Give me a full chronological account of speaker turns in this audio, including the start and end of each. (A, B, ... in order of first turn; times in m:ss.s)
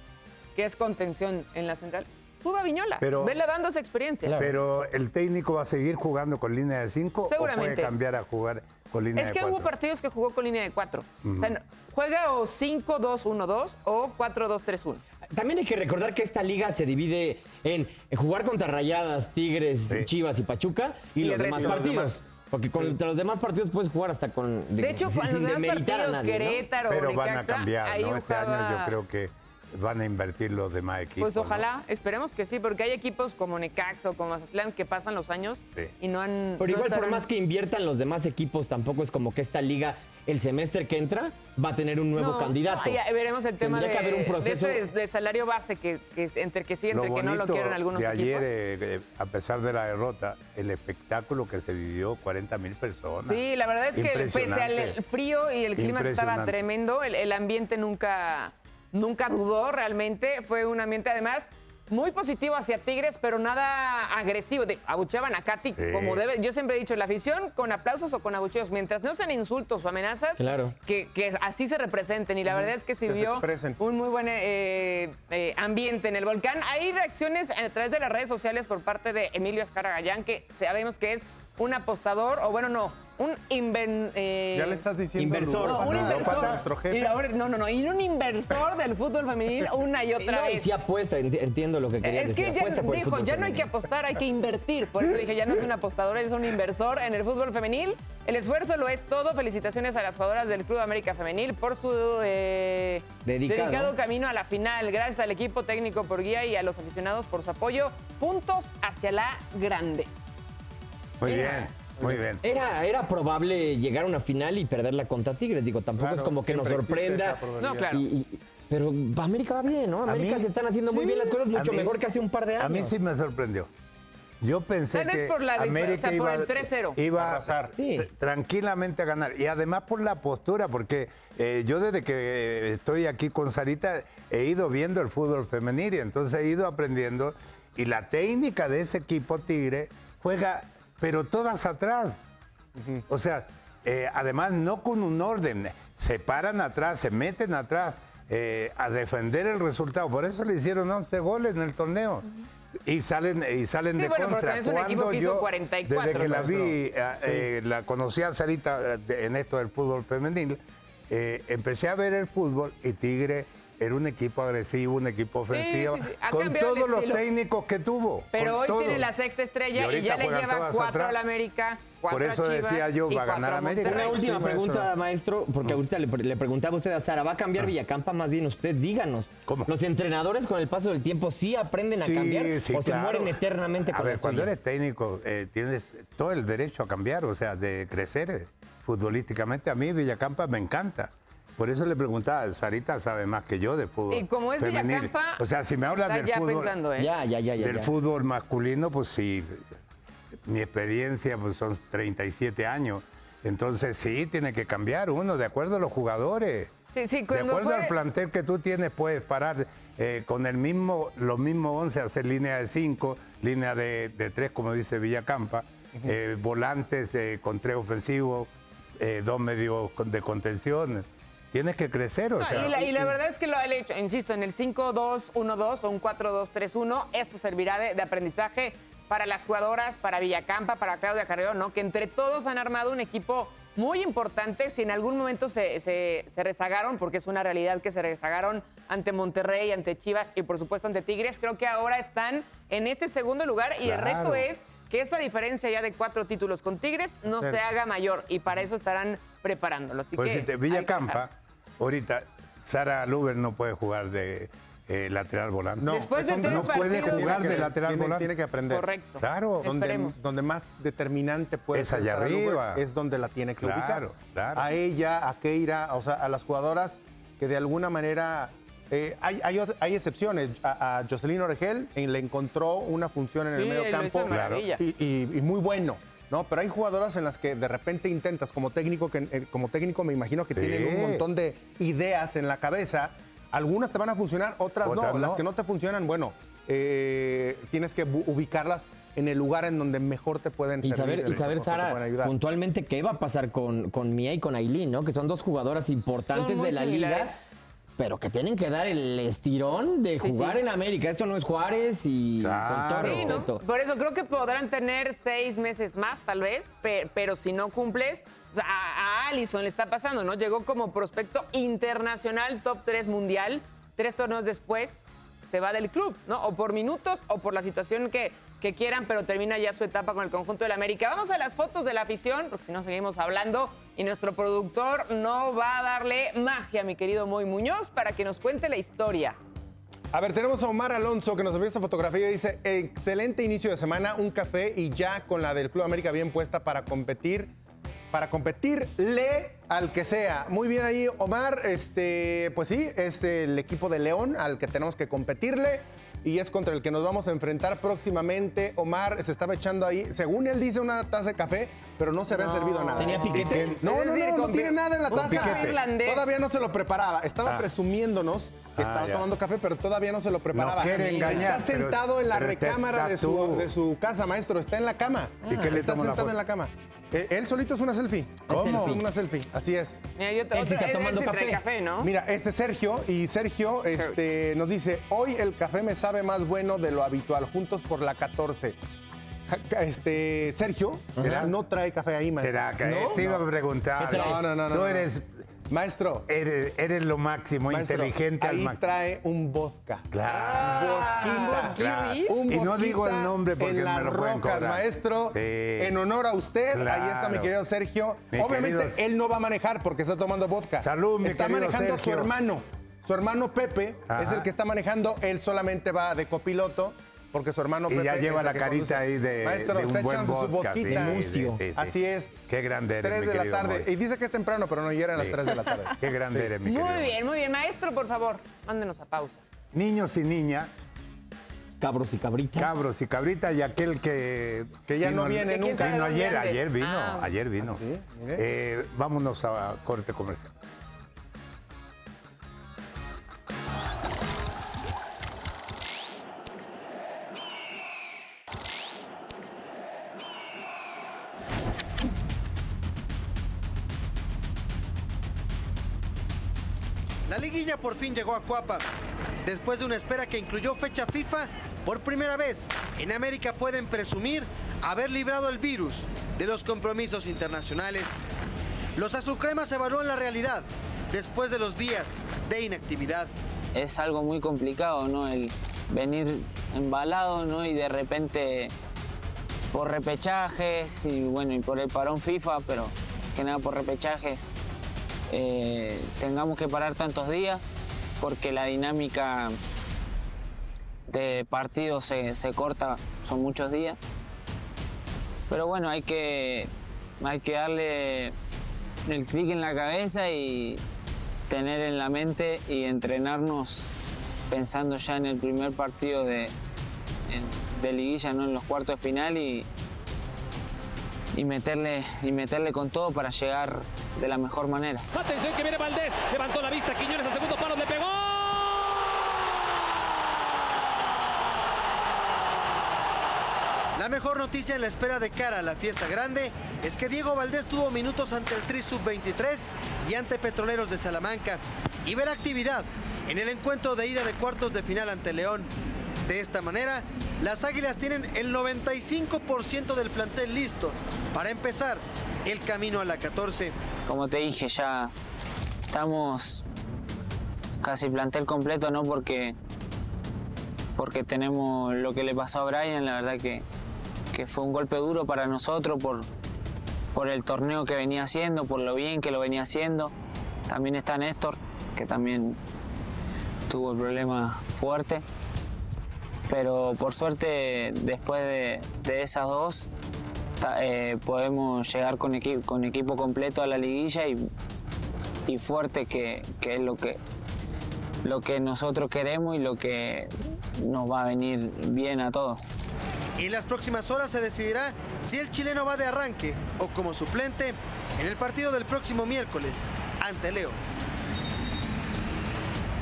0:00.6-0:04.4 A
0:03.0-0:03.4 B
0:04.2-0:04.6 C
0:04.4-0:09.7 B
0:07.3-0:07.9 A
0:09.1-0:15.0 A
0:11.2-0:11.5 B
0:15.3-0:26.6 C
0:21.2-0:22.0 A
0:21.5-0:22.1 D
0:24.8-0:28.9 A
0:26.9-0:31.6 B
0:31.2-0:37.2 A
0:36.6-0:43.0 C
0:42.1-0:48.5 A
0:43.6-0:44.8 C
0:46.9-0:53.4 B
0:53.2-1:24.8 A
0:53.9-0:55.0 B
0:55.8-0:56.6 B
1:05.8-1:06.2 B
1:10.4-1:10.8 C
1:12.5-1:13.8 D
1:24.5-1:27.2 D
1:25.2-1:26.6 C
1:25.6-1:30.7 A
1:26.2-1:26.6 B
1:30.2-1:33.8 C
1:32.0-1:50.1 A
1:43.2-1:43.9 C
1:51.2-1:52.4 B
1:51.3-1:51.6 A
1:52.4-2:03.0 C
1:56.0-1:58.0 D
1:57.6-1:58.0 A
2:00.0-2:00.5 B
2:00.9-2:01.3 A
2:01.5-2:02.0 B
2:02.6-2:03.7 B
2:04.4-2:22.2 B
2:04.9-2:07.0 A
2:07.1-2:07.7 D
2:07.7-2:08.1 C
2:22.8-2:23.0 D
2:23.1-2:32.3 B
2:32.8-2:40.6 B
2:34.0-2:36.7 A
2:36.1-2:37.5 D
2:41.1-2:49.1 B
2:45.5-2:47.2 A
2:48.3-2:54.2 A
2:49.7-2:51.2 B
2:52.1-2:54.2 B
2:53.8-3:04.5 C
2:54.1-2:54.8 D
2:59.5-2:59.7 B
3:02.0-3:16.7 B
3:14.1-3:17.1 A
3:17.0-3:17.9 C
3:17.6-3:19.8 B
3:20.4-3:26.7 B
3:26.9-3:27.9 A
3:27.3-3:42.8 B
3:42.4-4:11.2 A
3:42.6-3:43.0 D
4:03.8-4:04.4 B
4:10.2-4:18.3 B
4:15.8-4:18.9 D
4:15.9-4:17.7 A
4:18.7-4:20.2 A
4:19.2-4:19.6 B
4:19.6-4:24.0 D
4:21.7-4:22.8 B
4:23.6-4:24.7 B
4:24.5-4:52.3 D
4:33.5-4:34.8 A
4:34.3-4:34.6 B
4:40.5-4:41.2 B
4:44.8-4:45.4 B
4:50.8-4:57.3 C
4:56.3-4:57.4 A
4:58.0-5:03.6 C
5:00.2-5:00.6 A
5:02.4-5:03.4 B
5:03.0-5:29.4 A
5:30.1-5:37.5 D
5:38.1-6:10.0 D
5:52.3-5:53.3 A
5:53.0-5:53.7 C
5:53.1-5:53.8 B
5:53.8-5:56.3 A
5:55.1-5:55.8 B
5:58.8-5:59.3 B
6:00.5-6:03.7 B
6:01.0-6:01.7 C
6:05.5-6:05.8 C
6:05.5-6:06.3 B
6:08.5-6:09.1 C
6:10.2-6:12.1 A
6:10.5-6:11.6 C
6:12.0-6:18.8 D
6:19.5-6:23.4 D
6:21.2-6:21.5 C
6:21.2-6:21.5 B
6:22.4-6:25.4 B
6:22.8-6:23.3 C
6:24.0-6:24.4 C
6:24.1-6:25.1 D
6:25.7-6:26.2 D
6:26.3-6:28.8 B
6:27.7-6:51.2 D
6:30.1-6:31.1 B
6:30.2-6:31.8 C
6:31.2-6:32.4 A
6:31.8-6:36.0 B
6:36.7-6:37.5 B
6:38.3-6:39.0 B
6:40.8-6:42.3 B
6:44.1-6:44.5 B
6:47.9-6:51.9 B
6:50.8-6:51.6 C
6:51.8-6:52.4 D
6:52.5-6:53.9 B
6:53.0-6:56.5 D
6:55.2-6:57.1 B
6:56.6-6:59.4 A
6:59.7-7:00.7 B
7:01.8-7:02.8 C
7:02.6-7:07.8 B
7:04.9-7:06.0 D
7:05.4-7:07.3 A
7:07.6-7:08.4 D
7:08.4-7:10.5 B
7:27.3-7:28.8 E
7:29.4-7:38.2 E
7:39.0-7:43.3 E
7:43.7-7:48.7 F
7:49.7-7:54.5 F
7:55.3-7:57.6 F
7:58.2-7:59.6 F
8:01.1-8:04.0 F
8:05.5-8:06.7 F
8:07.2-8:08.3 F
8:09.0-8:10.8 F
8:11.5-8:13.9 F
8:14.5-8:16.5 F
8:17.3-8:19.6 F
8:21.3-8:25.0 F
8:25.1-8:28.9 G
8:34.0-8:45.7 E
8:46.2-8:53.7 E
8:54.1-8:55.1 F
8:55.9-8:56.6 F
8:57.8-8:59.5 F
9:01.0-9:03.6 F
9:04.3-9:06.2 F
9:07.1-9:10.1 F
9:10.7-9:12.6 F
9:13.7-9:15.2 F
9:16.5-9:19.9 F
9:20.6-9:24.4 F
9:25.5-9:27.2 F
9:28.2-9:32.6 F
9:33.4-9:40.8 E